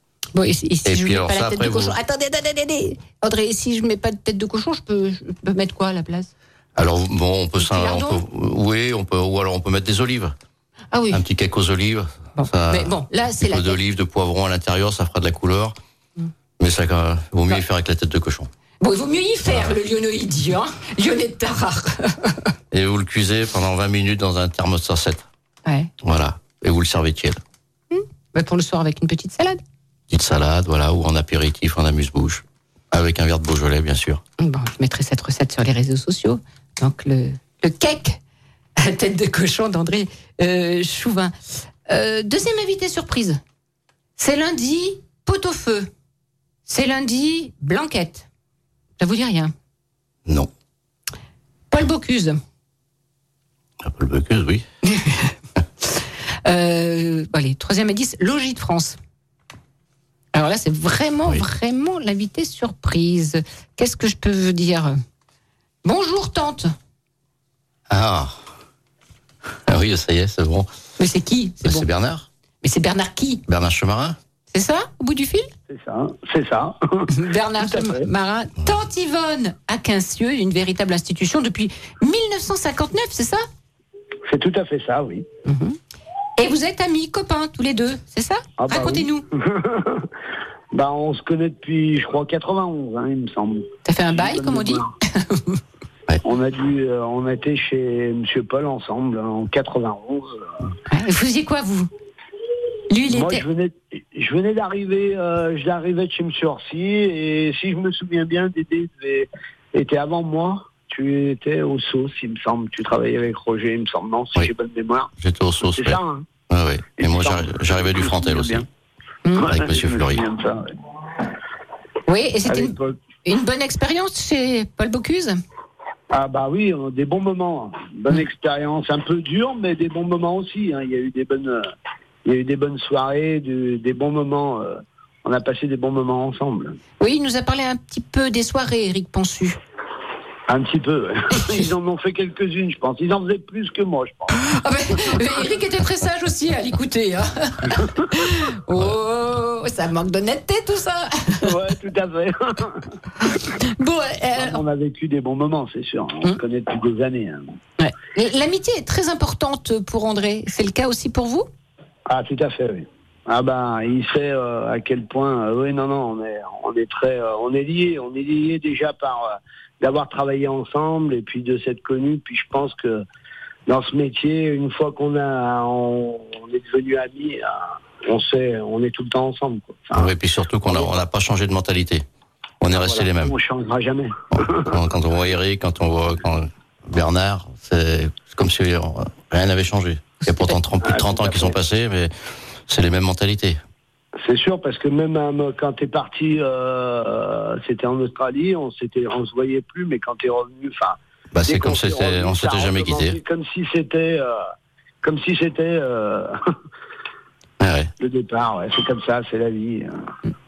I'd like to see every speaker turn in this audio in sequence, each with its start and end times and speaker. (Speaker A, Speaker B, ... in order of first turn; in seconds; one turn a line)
Speaker A: 0.3-6.3
Speaker B: 0.8-1.9
Speaker B: 6.8-10.3
Speaker A: 7.6-8.2
Speaker A: 10.9-11.2
Speaker B: 11.1-15.8
Speaker A: 12.4-13.8
Speaker B: 16.6-18.5
Speaker A: 18.8-22.5
Speaker B: 19.5-19.7
Speaker B: 22.7-25.2
Speaker A: 25.6-25.9
Speaker B: 26.0-27.4
Speaker A: 27.9-29.6
Speaker B: 30.1-34.2
Speaker A: 34.4-38.2
Speaker A: 38.8-41.3
Speaker A: 41.9-43.4
Speaker A: 44.2-45.9
Speaker A: 46.6-48.3
Speaker A: 49.0-49.5
Speaker A: 51.7-52.4
Speaker B: 53.8-54.6
Speaker A: 54.8-55.3
Speaker A: 56.4-59.0
Speaker A: 60.3-65.0
Speaker A: 65.8-66.7
Speaker B: 67.9-68.4
Speaker B: 69.7-70.7
Speaker A: 71.0-71.9
Speaker B: 71.6-72.3
Speaker A: 72.6-73.4
Speaker B: 73.5-74.2
Speaker A: 74.5-75.5
Speaker C: 75.7-78.1
Speaker A: 77.1-83.4
Speaker C: 84.3-85.2
Speaker A: 85.4-85.8
Speaker A: 86.4-89.2
Speaker C: 88.6-90.0
Speaker C: 90.7-94.9
Speaker A: 93.8-95.6
Speaker C: 96.2-100.5
Speaker A: 100.9-101.9
Speaker A: 102.9-103.4
Speaker C: 103.1-115.1
Speaker B: 115.2-118.6
Speaker C: 115.7-116.3
Speaker C: 117.0-118.7
Speaker A: 119.2-119.5
Speaker C: 119.3-120.7
Speaker B: 119.5-120.2
Speaker A: 122.1-125.4
Speaker C: 122.5-123.0
Speaker C: 126.1-131.7
Speaker C: 132.2-136.8
Speaker A: 137.0-139.6
Speaker C: 140.5-144.4
Speaker A: 144.4-151.5
Speaker C: 151.4-152.8
Speaker A: 153.6-154.6
Speaker C: 154.3-157.5
Speaker A: 157.8-161.5
Speaker C: 162.1-173.0
Speaker C: 173.7-180.1
Speaker B: 179.9-182.0
Speaker C: 180.7-181.0
Speaker B: 182.6-183.3
Speaker C: 182.7-184.7
Speaker B: 184.3-192.1
Speaker A: 190.2-190.6
Speaker C: 190.8-191.6
Speaker B: 192.7-193.6
Speaker C: 194.2-204.4
Speaker B: 201.3-203.2
Speaker C: 205.0-206.4
Speaker B: 207.6-207.9
Speaker C: 208.0-209.9